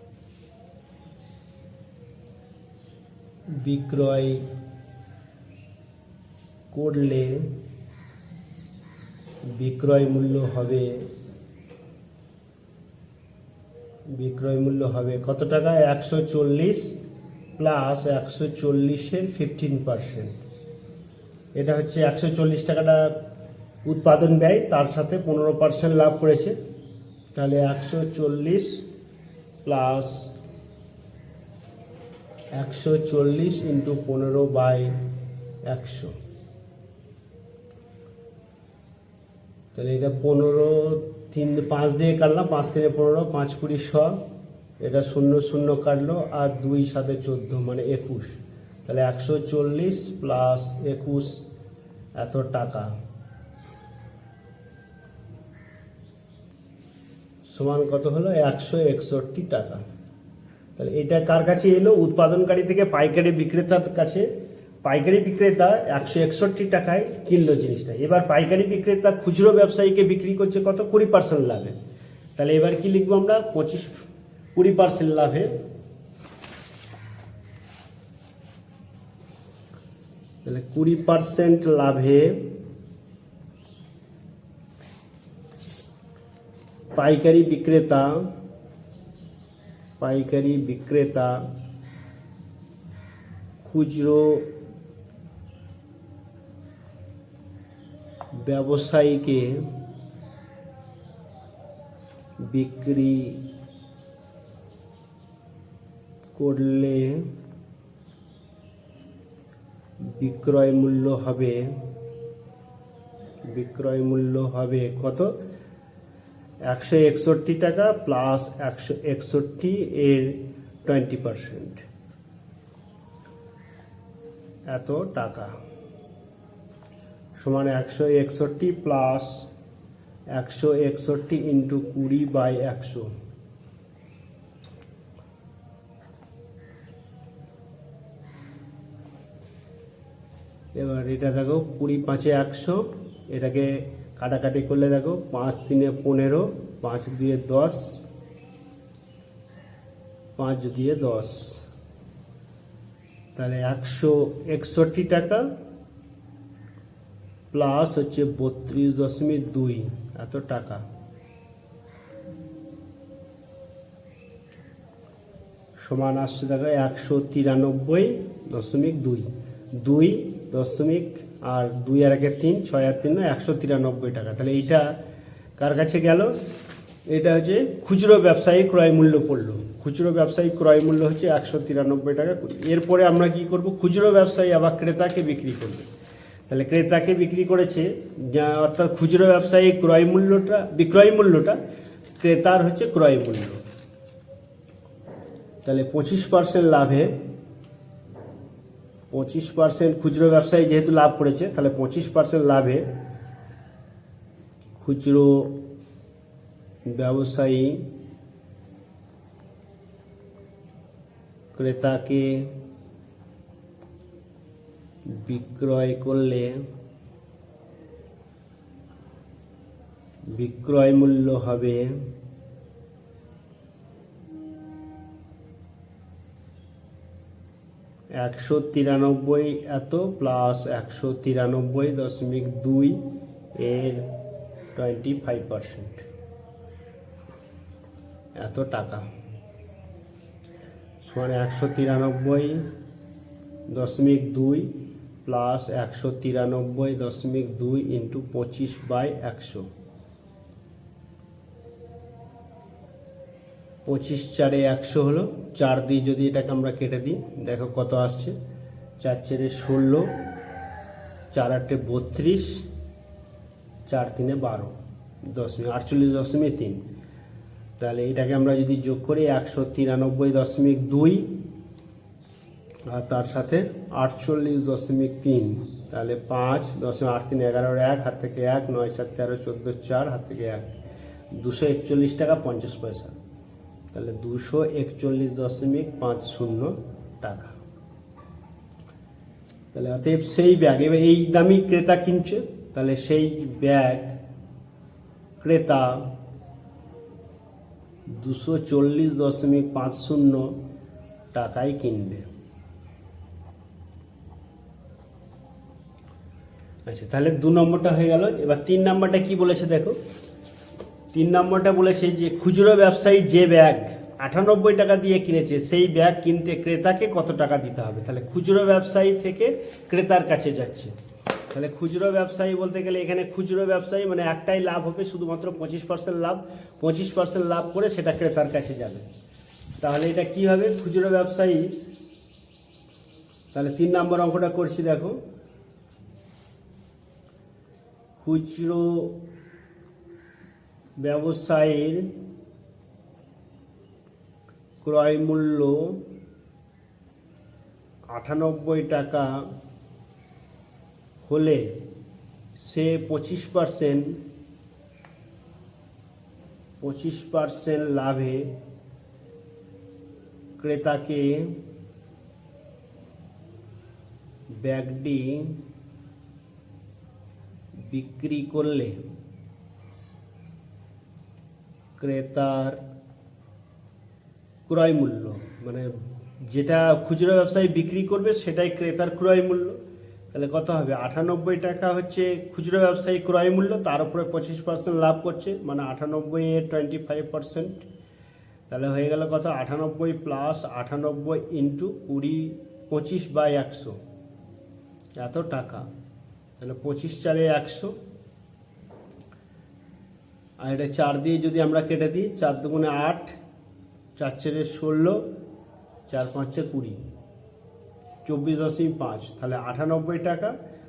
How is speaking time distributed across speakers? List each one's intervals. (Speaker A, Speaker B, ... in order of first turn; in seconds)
Speaker A: 3.5-4.4, 6.7-7.5, 9.5-11.1, 14.1-16.9, 17.6-20.4, 21.5-23.1, 23.8-26.5, 27.3-28.8, 29.6-30.3, 32.5-35.0, 35.6-36.1, 39.7-44.2, 44.8-51.4, 52.2-52.9, 57.5-59.8, 60.8-64.3, 64.8-71.8, 72.4-75.5, 80.4-82.5, 86.9-88.3, 90.0-91.4, 93.6-94.5, 98.4-99.7, 102.4-103.4, 106.3-107.3, 110.0-111.8, 113.5-115.3, 116.7-121.8, 124.7-125.5, 127.4-129.5, 130.3-133.1, 140.7-148.0, 150.4-151.6, 153.3-155.4, 157.5-160.8, 165.8-174.9, 175.6-176.3, 177.1-185.9, 186.5-191.6, 192.2-193.6, 195.6-197.1, 199.1-202.8, 204.8-205.6, 206.8-207.8, 211.5-212.5, 215.1-216.6, 220.3-222.0, 228.2-233.0, 233.6-234.1, 234.7-236.0, 238.4-239.1, 241.0-242.7, 243.7-244.7, 245.2-249.7, 253.8-258.3, 259.0-260.1, 261.3-262.6, 263.9-264.7, 265.3-266.8, 267.8-271.3, 272.9-280.6, 281.3-283.1, 283.9-287.5, 289.7-294.1, 295.4-296.1, 298.1-300.6, 301.3-302.3, 306.9-310.0, 311.1-320.9, 321.5-329.1, 329.8-331.8, 333.5-335.2, 338.2-339.2, 341.0-342.1, 344.8-346.0, 348.1-349.5, 351.2-351.7, 352.6-354.2, 356.8-358.5, 360.6-361.6, 364.5-365.6, 367.8-369.1, 372.0-372.8, 374.7-375.9, 376.5-379.8, 380.3-387.8, 388.7-394.0, 395.2-395.9, 396.6-397.9, 400.6-403.3, 404.2-405.2, 406.1-407.0, 408.2-410.5